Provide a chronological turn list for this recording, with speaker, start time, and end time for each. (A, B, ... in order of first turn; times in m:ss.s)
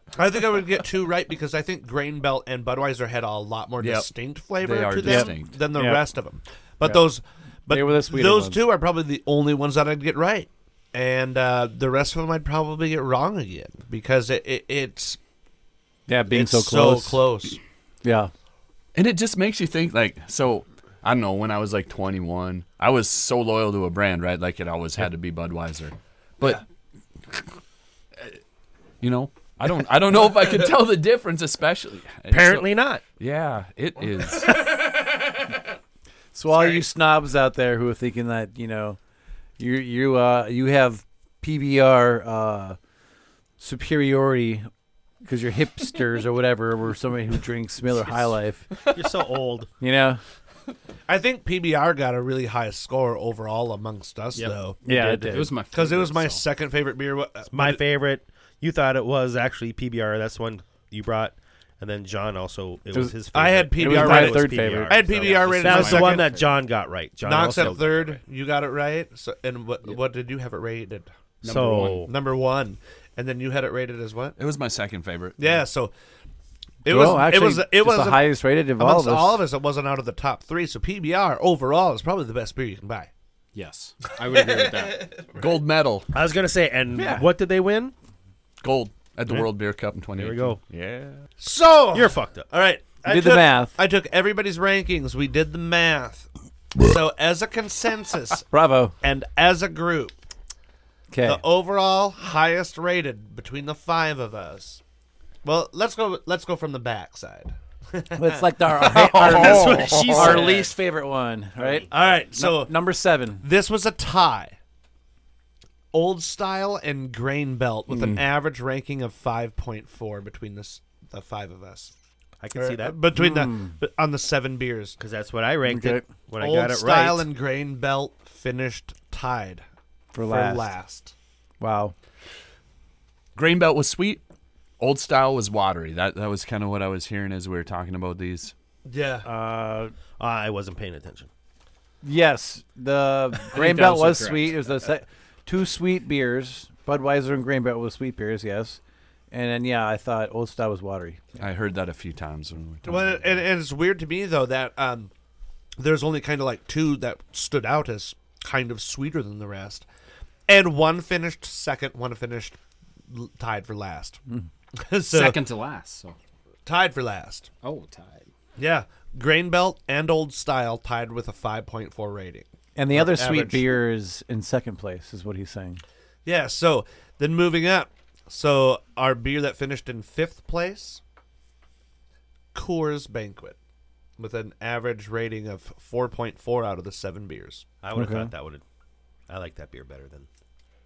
0:00.2-0:15.2 A
0:03.8-0:04.1 B
0:04.6-0:05.5 B
0:05.0-0:06.0 C
0:07.7-0:08.6 C
0:16.1-0:17.3 C
0:16.3-0:17.6 A
0:18.0-0:18.3 C
0:18.9-0:26.6 B
0:29.0-0:34.6 B
0:32.3-0:33.0 D
0:34.4-0:34.9 A
0:36.3-0:39.0 C
0:39.6-0:42.8 C
0:43.6-0:44.7 C
0:45.2-0:48.7 C
0:48.9-0:49.7 D
0:49.8-0:50.2 C
0:51.1-0:54.8 A
0:54.3-0:56.4 E
0:54.8-0:55.5 C
0:55.7-0:57.8 A
0:57.5-1:08.2 D
1:03.3-1:06.3 A
1:03.7-1:05.0 C
1:05.1-1:06.6 E
1:07.2-1:11.1 A
1:11.4-1:12.1 E
1:11.4-1:12.1 D
1:12.0-1:14.4 A
1:14.4-1:15.6 B
1:15.4-1:15.9 A
1:16.8-1:19.4 C
1:16.8-1:23.1 A
1:23.5-1:25.2 E
1:24.3-1:25.5 A
1:25.3-1:26.1 B
1:26.1-1:27.9 D
1:26.9-1:27.3 C
1:28.6-1:31.2 B
1:30.2-1:30.6 D
1:31.4-1:38.4 A
1:31.9-1:32.5 D
1:33.0-1:33.8 C
1:38.5-1:38.9 C
1:39.0-1:40.2 A
1:41.1-1:41.4 C
1:41.2-1:44.8 A
1:45.4-1:50.5 A
1:48.1-1:53.4 C
1:48.8-1:50.7 D
1:49.3-1:50.5 B
1:51.6-1:52.0 D
1:51.9-1:52.8 A
1:53.4-1:54.6 A
1:55.9-2:01.9 A
1:57.9-1:58.2 C
2:02.4-2:03.0 D
2:02.5-2:05.0 A
2:03.1-2:03.8 C
2:05.0-2:07.3 D
2:05.6-2:06.0 C
2:06.4-2:09.6 A
2:10.1-2:10.7 C
2:10.2-2:11.1 A
2:11.6-2:11.9 C
2:13.4-2:14.2 B
2:14.8-2:18.5 B
2:18.8-2:19.3 A
2:19.2-2:19.9 C
2:20.2-2:21.3 D
2:22.0-2:28.8 C
2:23.5-2:24.6 E
2:29.3-2:31.4 C
2:31.4-2:33.4 B
2:32.8-2:35.1 A
2:35.8-2:39.8 A
2:40.5-2:42.6 A
2:43.1-2:44.2 A
2:44.8-2:45.4 A
2:45.1-2:46.2 E
2:46.6-2:47.5 A
2:47.6-2:48.3 E
2:48.6-2:53.8 A
2:52.8-2:55.8 C
2:56.2-3:01.0 A
3:02.5-3:03.6 A
3:04.2-3:07.6 A
3:07.8-3:08.6 D
3:07.9-3:08.3 C
3:09.3-3:10.3 D